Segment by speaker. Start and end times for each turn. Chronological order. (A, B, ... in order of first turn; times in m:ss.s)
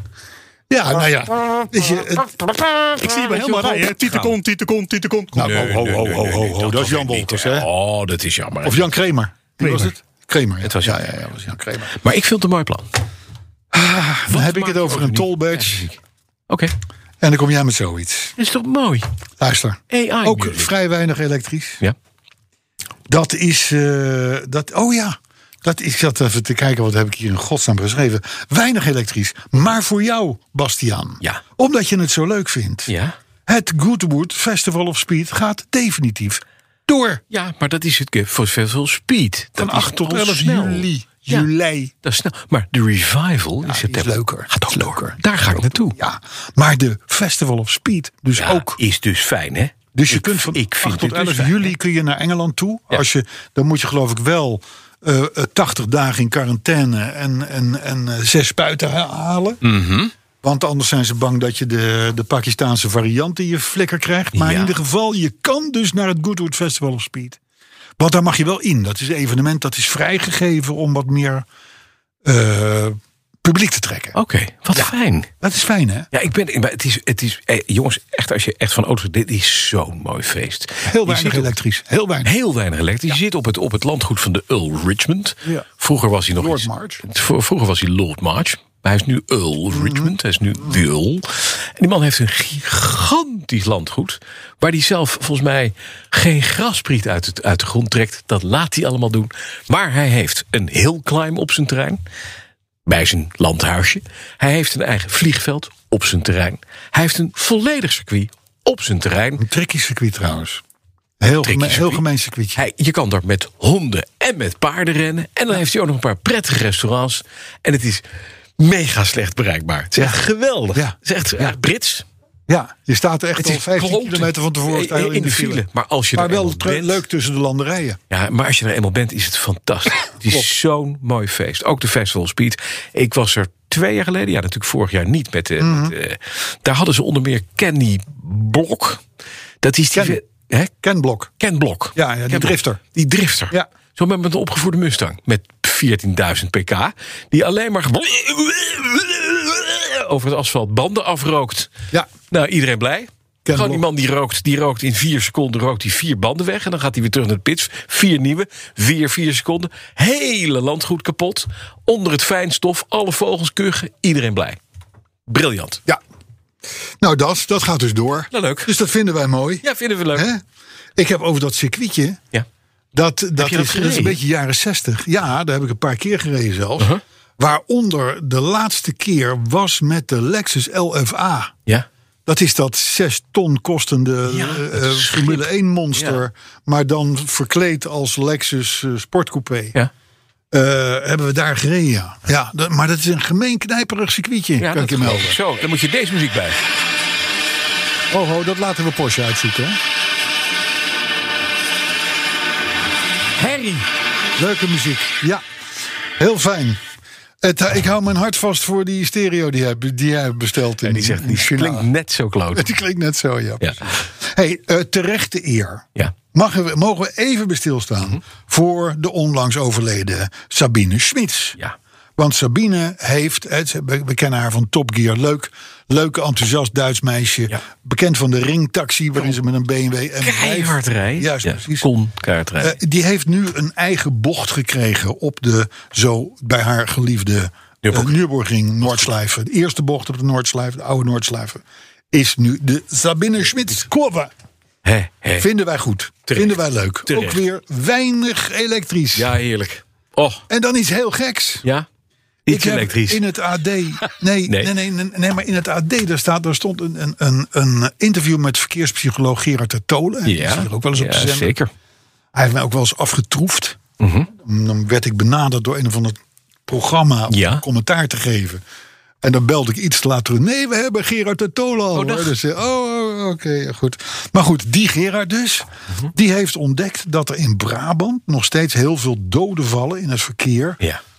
0:00.7-0:03.1 A
0:03.0-0:05.5 B
0:05.3-0:07.7 A
0:05.4-0:08.9 C
0:08.6-0:12.0 A
0:09.6-0:09.9 B
0:10.6-0:11.0 C
0:11.9-0:12.9 C
0:13.7-0:15.8 A
0:14.3-0:16.0 C
0:17.2-0:18.3 A
0:18.4-0:19.1 C
0:19.4-0:21.8 A
0:19.9-0:20.7 C
0:23.1-0:32.9 A
0:32.9-0:33.2 C
0:33.4-0:37.2 A
0:37.3-0:41.5 C
0:39.6-0:41.9 A
0:42.0-0:46.0 C
0:43.6-0:45.2 A
0:45.9-0:48.8 A
0:48.4-0:51.7 C
0:50.0-0:59.6 A
0:59.6-1:00.1 C
1:00.4-1:07.4 A
1:04.3-1:04.7 C
1:08.0-1:11.4 A
1:12.2-1:14.2 A
1:14.1-1:15.3 C
1:14.7-1:16.1 A
1:16.1-1:21.5 C
1:20.9-1:22.3 A
1:22.2-1:42.0 C
1:26.3-1:27.0 A
1:29.7-1:30.1 A
1:42.9-1:49.4 C
1:49.4-1:50.6 A
1:51.2-1:52.6 A
1:51.4-1:52.0 C
1:52.6-1:58.0 C
1:58.6-2:02.0 C
2:00.0-2:00.2 A
2:00.7-2:01.6 A
2:02.5-2:08.0 A
2:03.4-2:07.0 C
2:08.1-2:19.0 C
2:15.6-2:16.0 A
2:19.6-2:20.7 C
2:19.9-2:20.2 A
2:20.8-2:21.3 A
2:21.4-2:31.7 C
2:22.0-2:22.8 A
2:32.3-2:44.6 C
2:33.4-2:33.8 A
2:45.3-2:45.8 C
2:47.0-2:50.4 A
2:48.3-2:48.7 C
2:49.6-2:50.3 C
2:51.0-2:52.2 A
2:52.9-3:01.5 A
2:53.4-2:54.2 C
3:02.3-3:09.8 A
3:04.3-3:06.2 C
3:10.5-3:15.4 A
3:14.6-3:16.6 C
3:18.1-3:19.8 A
3:23.4-3:23.8 C
3:24.4-3:25.4 A
3:26.2-3:26.8 A
3:27.4-3:31.9 A
3:30.8-3:32.7 C
3:32.5-3:41.6 A
3:33.6-3:33.9 C
3:42.2-3:51.9 A
3:50.2-3:52.8 C
3:52.6-4:04.3 A
3:57.8-3:58.2 C
3:58.8-3:59.1 C
4:04.8-4:05.5 C
4:05.4-4:09.3 A
4:06.3-4:07.4 C
4:09.1-4:10.4 C
4:10.5-4:11.6 A
4:12.4-4:13.2 C
4:12.5-4:21.5 A
4:14.0-4:14.7 C
4:20.2-4:21.7 C
4:22.3-4:23.8 A
4:24.0-4:24.3 C
4:24.3-4:28.6 A
4:27.3-4:27.6 C
4:29.2-4:40.8 A
4:31.9-4:32.3 C